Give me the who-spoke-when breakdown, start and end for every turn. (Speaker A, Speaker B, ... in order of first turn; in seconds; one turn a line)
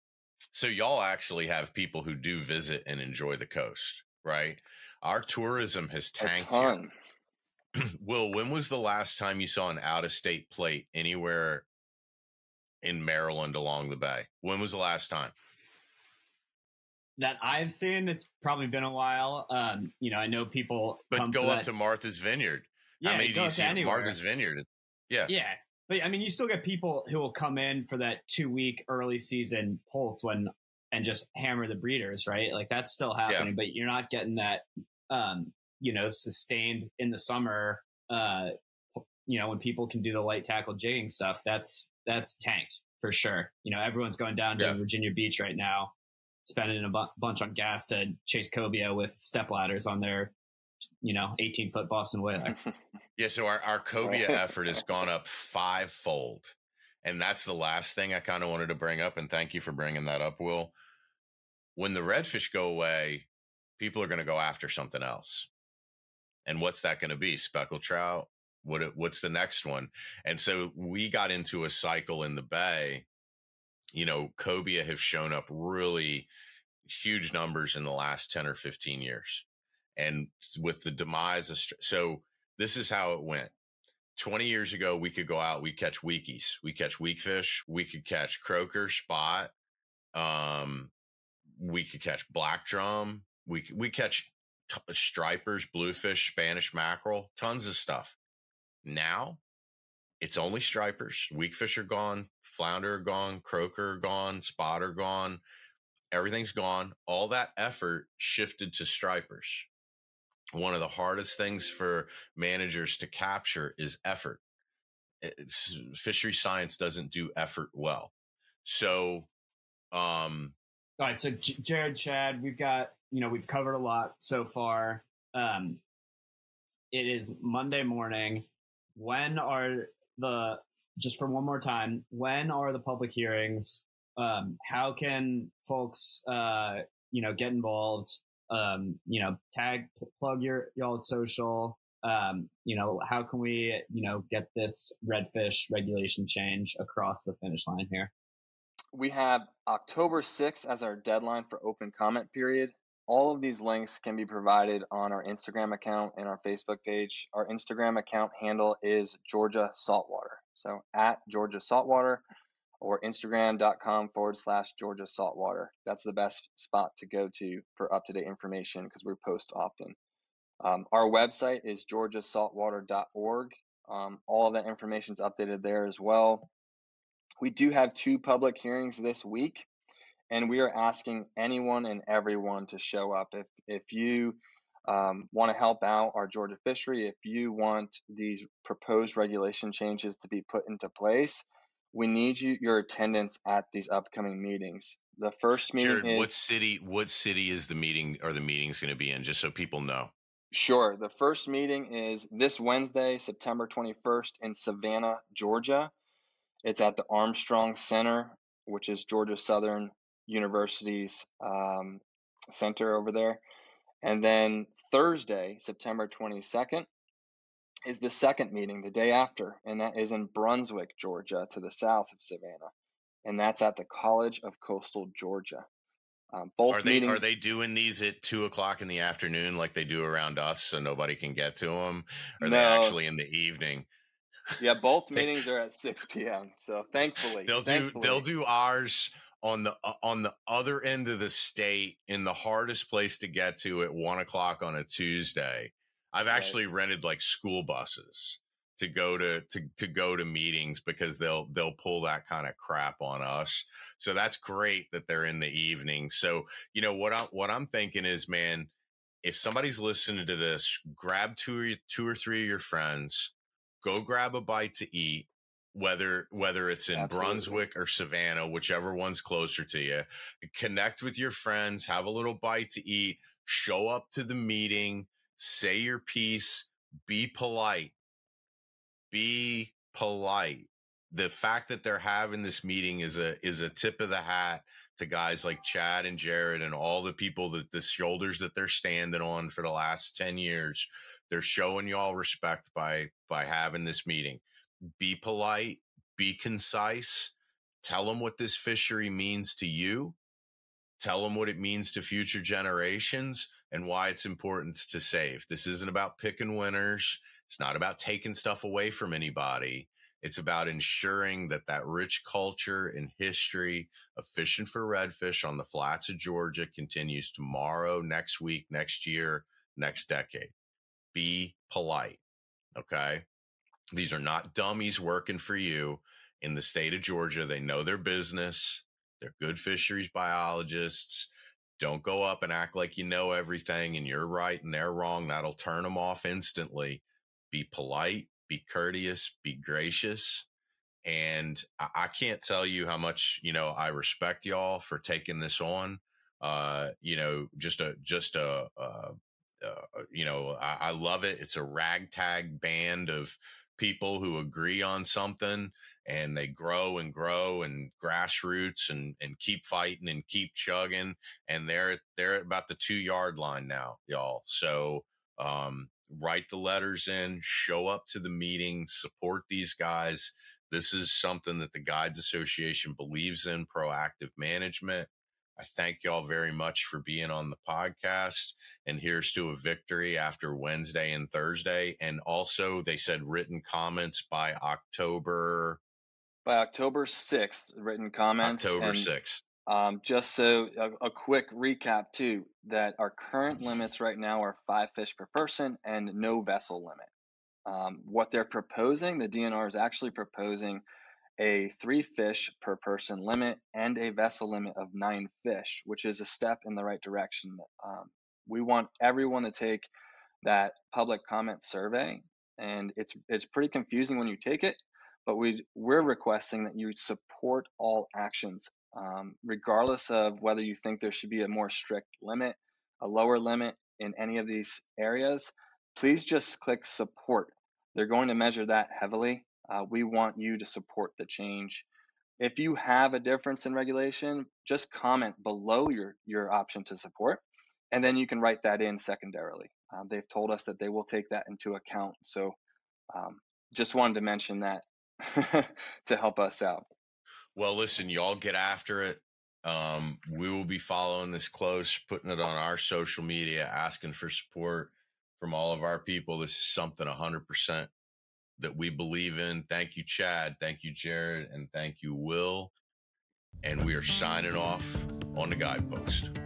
Speaker A: 0.5-6.7
Speaker B: 6.2-6.9
Speaker A: 7.8-11.7
Speaker A: 12.8-15.3
Speaker C: 17.2-21.7
Speaker A: 21.1-25.3
Speaker C: 23.0-24.2
Speaker C: 25.3-38.5
Speaker C: 39.2-50.3
Speaker C: 51.0-52.6
Speaker A: 53.2-60.7
Speaker B: 54.0-54.3
Speaker A: 61.8-65.5
Speaker A: 66.5-73.1
Speaker A: 73.9-76.3
Speaker A: 76.8-83.5
Speaker A: 84.2-89.5
Speaker A: 90.1-90.9
Speaker A: 91.5-98.2
Speaker A: 98.8-99.4
Speaker A: 100.2-105.4
Speaker A: 106.1-109.7
Speaker A: 110.5-114.4
Speaker A: 115.2-118.1
Speaker A: 118.6-119.3
Speaker A: 119.9-120.5
Speaker C: 121.0-125.8
Speaker C: 126.9-148.1
Speaker B: 148.9-162.2
Speaker B: 162.8-169.9
Speaker B: 170.6-176.5
Speaker B: 177.4-179.7
Speaker B: 180.3-196.3
Speaker A: 195.7-200.1
Speaker B: 200.5-205.9
Speaker B: 206.6-213.4
Speaker B: 214.0-216.9
Speaker B: 217.9-222.7
Speaker B: 223.2-225.7
Speaker B: 226.3-227.2
Speaker A: 226.7-233.9
Speaker B: 232.4-233.0
Speaker B: 234.6-238.2
Speaker A: 237.4-258.7
Speaker B: 246.3-246.6
Speaker A: 259.2-277.9
Speaker B: 266.9-267.6
Speaker A: 279.1-294.4
Speaker A: 295.0-300.1
Speaker A: 301.0-320.5
Speaker A: 321.1-322.2
Speaker A: 322.8-323.2
Speaker A: 323.9-340.4
Speaker A: 341.0-385.8
Speaker B: 386.4-389.1
Speaker A: 388.4-389.4
Speaker B: 389.6-397.1
Speaker B: 397.7-400.8
Speaker B: 401.4-409.9
Speaker B: 410.4-431.9
Speaker B: 432.4-442.6
Speaker B: 443.1-446.9
Speaker A: 447.6-457.9
Speaker A: 458.6-462.7
Speaker A: 463.6-466.3